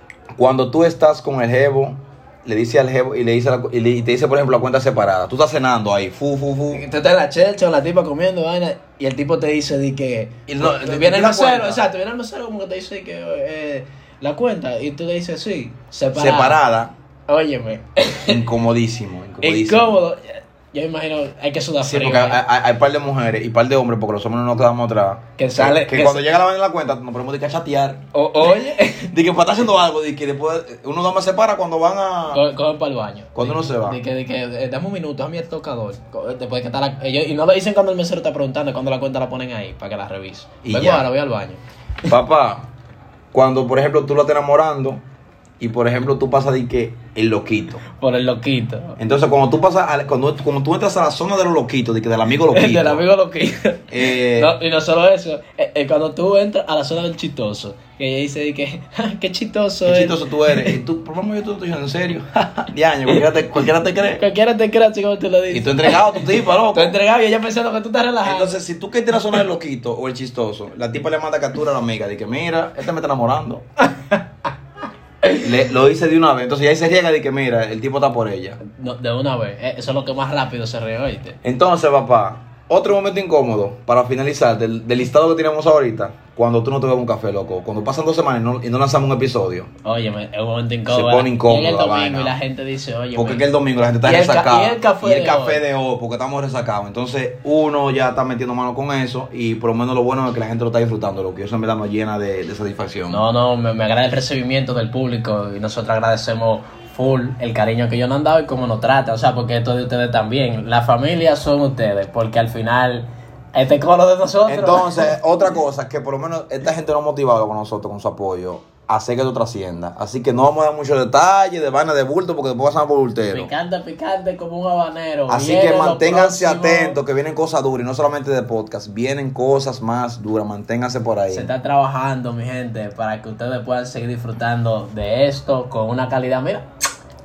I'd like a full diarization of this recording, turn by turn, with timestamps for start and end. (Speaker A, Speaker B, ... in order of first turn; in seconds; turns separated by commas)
Speaker A: 0.3-6.8, Speaker B: 6.7-16.6, Speaker A: 10.5-11.8, Speaker A: 16.1-16.9, Speaker B: 17.3-18.4, Speaker A: 18.2-20.0, Speaker B: 19.4-22.4, Speaker A: 21.8-28.0, Speaker B: 25.4-26.2, Speaker B: 28.1-29.1, Speaker A: 29.0-32.4, Speaker B: 32.3-41.6, Speaker A: 33.3-34.0, Speaker A: 40.6-41.1, Speaker A: 42.0-42.7, Speaker A: 43.3-45.0, Speaker A: 45.6-47.8, Speaker B: 47.9-49.0, Speaker A: 49.0-53.0, Speaker B: 52.5-60.8, Speaker A: 53.9-54.5, Speaker A: 59.8-64.2, Speaker B: 64.2-68.6, Speaker A: 65.5-67.0, Speaker A: 68.2-73.6, Speaker B: 73.9-74.2, Speaker A: 75.3-78.6, Speaker B: 78.6-81.4, Speaker A: 81.4-89.7, Speaker B: 89.8-93.4, Speaker A: 90.9-92.3, Speaker A: 93.2-103.2, Speaker B: 94.0-95.6, Speaker B: 103.1-115.1, Speaker A: 114.5-123.5, Speaker B: 123.3-127.0, Speaker A: 125.3-131.5, Speaker B: 131.3-136.7